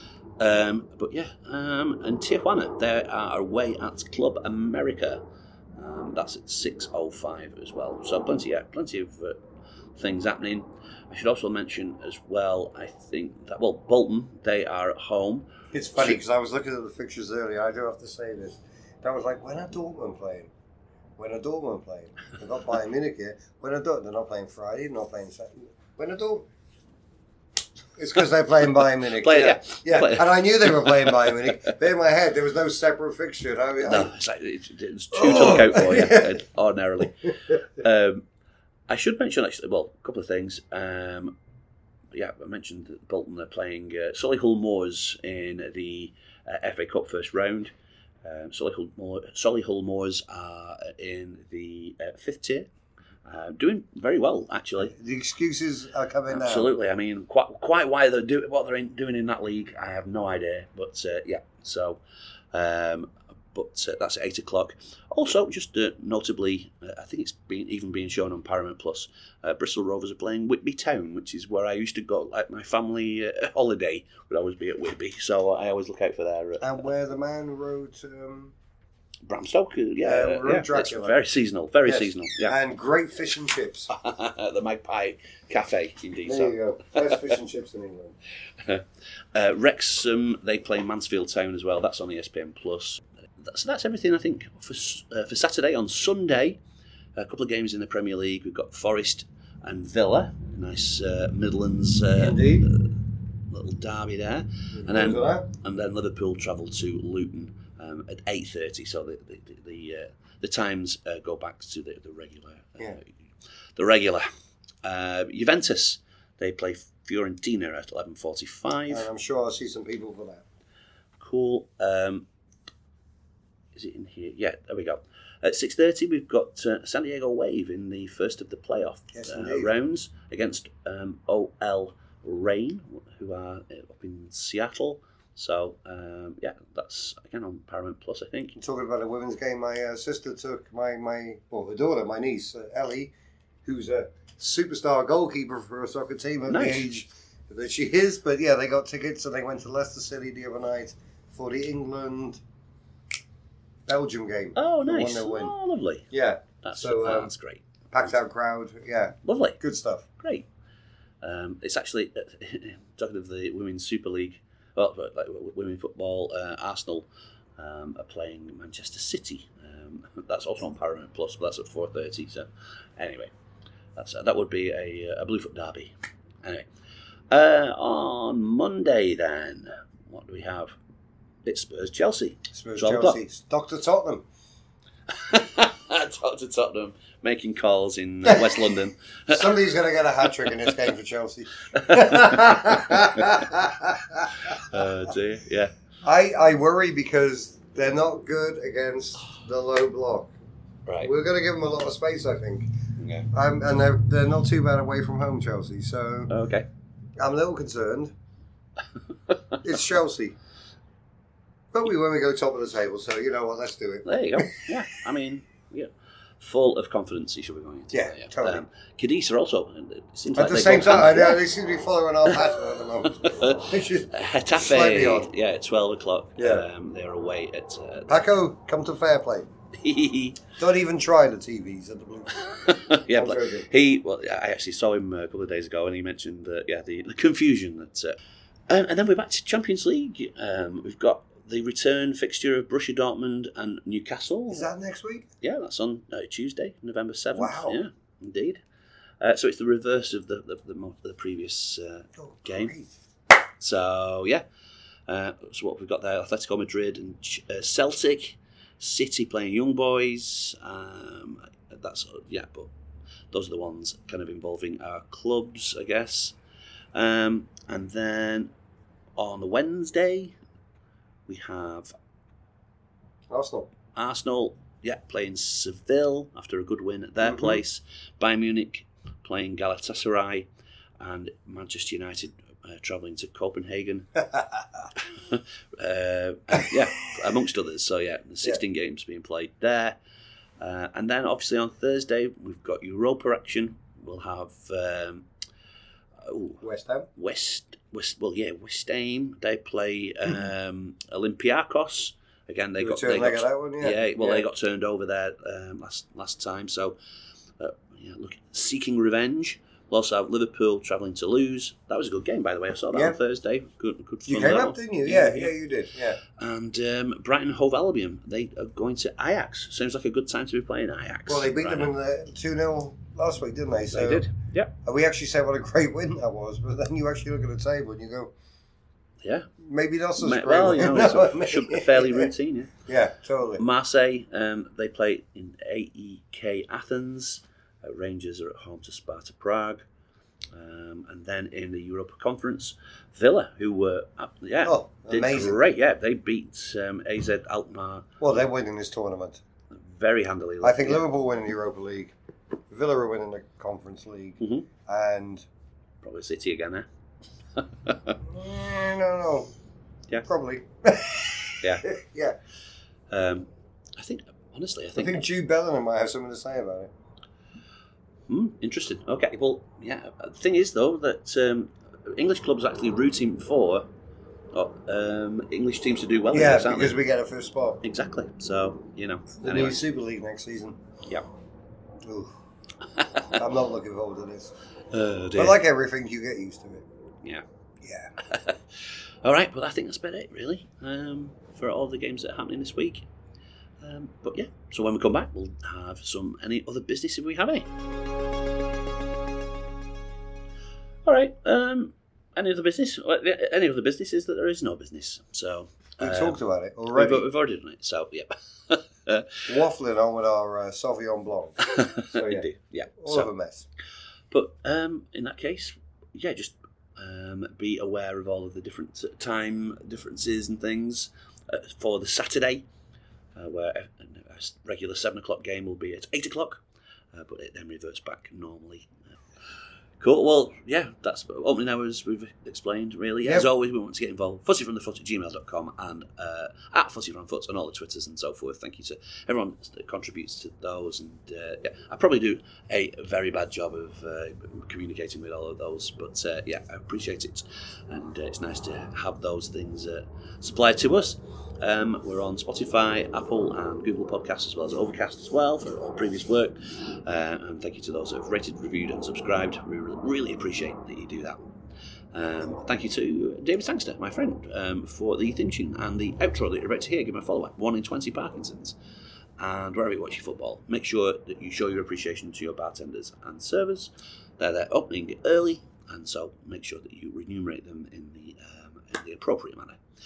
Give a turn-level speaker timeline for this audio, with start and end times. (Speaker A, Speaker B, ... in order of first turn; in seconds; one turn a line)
Speaker A: 0.4-5.2
Speaker A: 5.8-9.4
Speaker A: 10.0-16.2
Speaker B: 15.7-20.5
Speaker B: 21.2-26.5
Speaker B: 28.0-34.1
Speaker A: 29.0-31.7
Speaker A: 33.8-38.3
Speaker B: 35.1-36.4
Speaker A: 38.9-41.4
Speaker A: 42.1-47.7
Speaker A: 48.2-52.7
Speaker A: 53.3-54.9
Speaker B: 54.8-56.7
Speaker A: 56.3-62.0
Speaker A: 62.5-76.8
Speaker B: 76.6-78.5
Speaker A: 79.3-82.6
Speaker B: 80.0-81.2
Speaker B: 81.8-83.9
Speaker A: 83.9-87.4
Speaker B: 86.3-88.2
Speaker A: 88.6-96.6
Speaker A: 97.2-103.0
Speaker B: 102.2-102.7
Speaker A: 103.5-113.1
Speaker B: 104.7-105.5
Speaker A: 113.8-114.3
Speaker A: 114.8-119.1
Speaker B: 118.9-120.4
Speaker A: 121.2-122.3
Speaker A: 123.8-138.6
Speaker B: 129.1-129.7
Speaker B: 138.6-143.1
Speaker B: 143.7-152.4
Speaker A: 146.5-146.9
Speaker B: 153.9-155.6
Speaker A: 154.6-156.1
Speaker B: 156.1-157.3
Speaker A: 156.6-157.8
Speaker B: 157.9-160.1
Speaker A: 159.2-159.6
Speaker A: 160.2-160.5
Speaker A: 161.2-167.1
Speaker A: 167.6-173.3
Speaker A: 174.0-176.7
Speaker A: 177.3-180.8
Speaker A: 181.4-183.2
Speaker B: 182.5-184.2
Speaker A: 185.1-189.7
Speaker B: 188.3-188.8
Speaker B: 189.3-195.1
Speaker A: 190.2-190.7
Speaker A: 191.7-193.5
Speaker A: 194.3-195.7
Speaker B: 196.0-200.3
Speaker A: 200.9-201.1
Speaker B: 201.0-202.7
Speaker A: 203.0-203.3
Speaker B: 203.3-206.3
Speaker A: 206.3-206.7
Speaker B: 207.2-208.1
Speaker A: 209.3-209.6
Speaker B: 209.6-210.4
Speaker B: 211.7-214.7
Speaker A: 214.1-221.5
Speaker B: 217.9-218.6
Speaker B: 220.4-225.3
Speaker A: 223.1-228.2
Speaker B: 226.4-226.7
Speaker B: 228.1-229.5
Speaker A: 229.7-230.4
Speaker B: 230.6-233.7
Speaker A: 232.4-238.2
Speaker A: 238.7-244.7
Speaker B: 244.5-245.3
Speaker A: 245.4-248.6
Speaker B: 247.3-247.8
Speaker A: 249.2-252.7
Speaker B: 252.2-252.9
Speaker A: 253.6-254.4
Speaker A: 255.1-262.7
Speaker A: 263.3-266.4
Speaker A: 266.9-268.5
Speaker A: 269.2-270.4
Speaker A: 271.3-271.9
Speaker B: 273.3-273.7
Speaker A: 273.9-280.5
Speaker B: 277.2-277.6
Speaker A: 281.0-284.2
Speaker B: 284.2-284.6
Speaker A: 285.0-290.0
Speaker A: 290.6-295.3
Speaker A: 296.2-296.6
Speaker B: 296.6-297.1
Speaker A: 297.2-306.9
Speaker B: 302.8-304.5
Speaker A: 307.6-315.5
Speaker B: 314.3-316.2
Speaker A: 316.3-321.9
Speaker B: 321.3-324.3
Speaker A: 323.9-324.7
Speaker B: 324.9-328.3
Speaker A: 329.2-329.5
Speaker B: 329.6-332.3
Speaker A: 330.2-332.7
Speaker B: 332.9-333.6
Speaker A: 333.6-339.9
Speaker A: 340.5-348.1
Speaker B: 344.6-345.6
Speaker B: 348.2-349.4
Speaker A: 349.7-351.1
Speaker B: 350.6-352.1
Speaker B: 352.7-355.5
Speaker A: 354.4-354.7
Speaker A: 356.0-356.9
Speaker A: 357.6-358.2
Speaker B: 358.2-359.5
Speaker B: 360.2-362.4
Speaker A: 361.6-361.9
Speaker A: 363.1-365.2
Speaker B: 365.0-366.9
Speaker A: 368.3-373.9
Speaker A: 374.5-377.0
Speaker B: 376.3-377.8
Speaker A: 377.8-379.8
Speaker B: 379.4-380.8
Speaker B: 382.0-382.3
Speaker B: 383.3-384.5
Speaker A: 384.9-385.6
Speaker B: 385.4-386.9
Speaker B: 387.8-388.1
Speaker A: 388.2-393.1
Speaker A: 393.8-397.7
Speaker A: 401.1-406.4
Speaker B: 406.0-407.3
Speaker A: 406.9-409.5
Speaker B: 409.5-413.7
Speaker A: 411.6-413.3
Speaker A: 414.3-422.6
Speaker A: 423.4-426.6
Speaker A: 427.1-428.9
Speaker A: 430.0-461.4
Speaker B: 433.2-433.5
Speaker A: 462.1-468.8
Speaker A: 469.4-479.8